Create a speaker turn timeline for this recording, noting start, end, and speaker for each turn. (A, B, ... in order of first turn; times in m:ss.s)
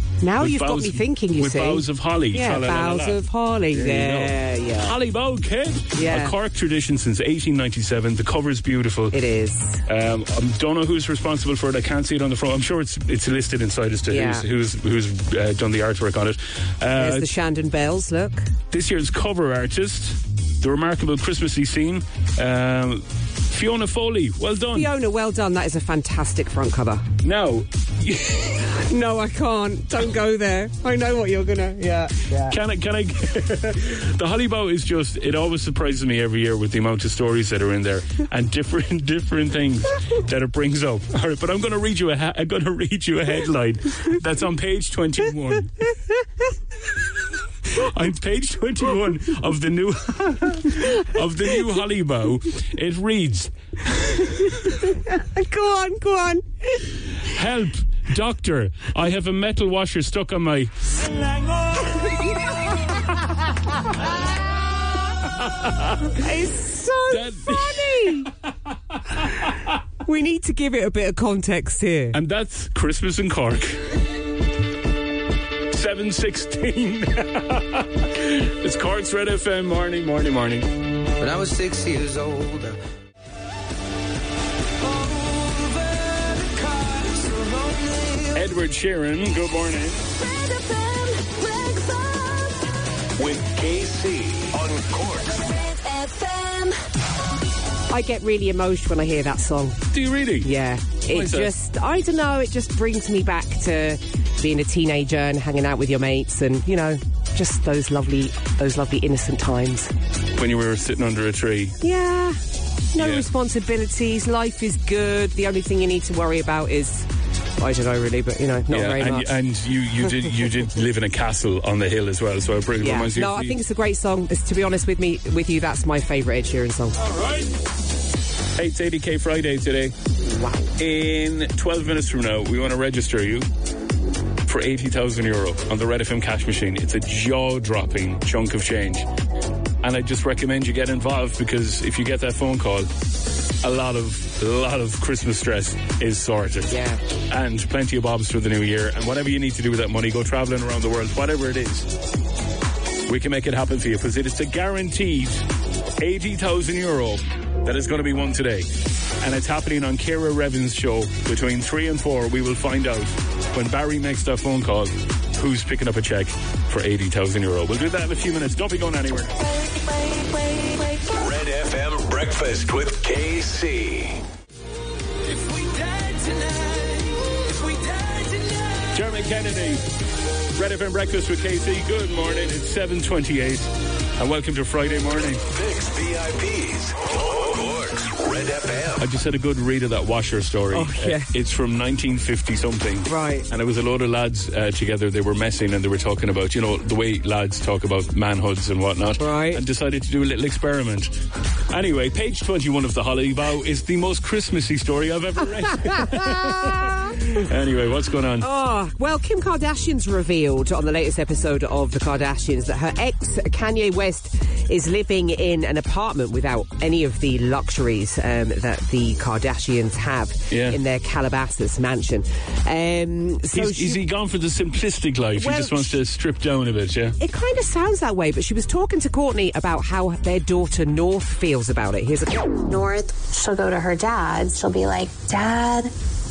0:00.2-0:04.9 A
0:00.4-0:03.2 B
0:03.7-0:09.2 B
0:06.0-0:06.3 A
0:09.1-0:09.8 A
0:09.9-0:17.3 B
0:14.1-0:14.5 A
0:17.0-0:18.5 A
0:18.7-0:24.9 B
0:24.7-0:27.0 A
0:27.2-0:28.7 B
0:28.7-0:32.6 A
0:32.5-0:45.8 B
0:47.7-0:53.5 B
0:54.4-0:56.8 A
0:57.3-1:00.7 B
1:05.6-1:05.9 B
1:06.2-1:08.3 A
1:07.1-1:08.3 B
1:10.0-1:12.2 A
1:12.1-1:14.0 B
1:15.7-1:20.7 B
1:21.2-1:22.8 C
1:25.0-1:28.3 C
1:28.3-1:30.0 B
1:33.2-1:35.6 D
1:37.9-1:39.9 A
1:39.9-1:40.5 B
1:40.4-1:49.9 A
1:41.1-1:41.5 B
1:50.4-1:51.8 B
1:51.8-1:52.4 A
1:52.9-1:59.3 A
1:53.0-1:53.2 B
1:58.7-2:03.6 B
2:02.8-2:07.0 A
2:07.1-2:07.4 B
2:08.6-2:10.0 B
2:10.3-2:10.7 A
2:10.8-2:13.5 B
2:14.5-2:19.1 B
2:19.8-2:22.9 B
2:23.6-2:26.8 B
2:26.7-2:27.0 A
2:27.3-2:31.9 B
2:33.1-2:35.4 B
2:36.0-2:38.7 B
2:39.2-2:49.4 B
2:51.1-2:54.2 D
2:58.9-2:59.8 B
3:00.6-3:05.4 B
3:05.5-3:09.0 D
3:09.0-3:21.1 B
3:10.7-3:11.3 A
3:13.1-3:13.5 A
3:19.2-3:19.6 A
3:21.7-3:28.5 B
3:25.6-3:27.4 A
3:28.4-3:44.0 A
3:40.5-3:40.8 B
3:43.5-3:47.2 B
3:45.4-3:46.0 A
3:47.2-3:52.6 A
3:52.7-3:55.9 E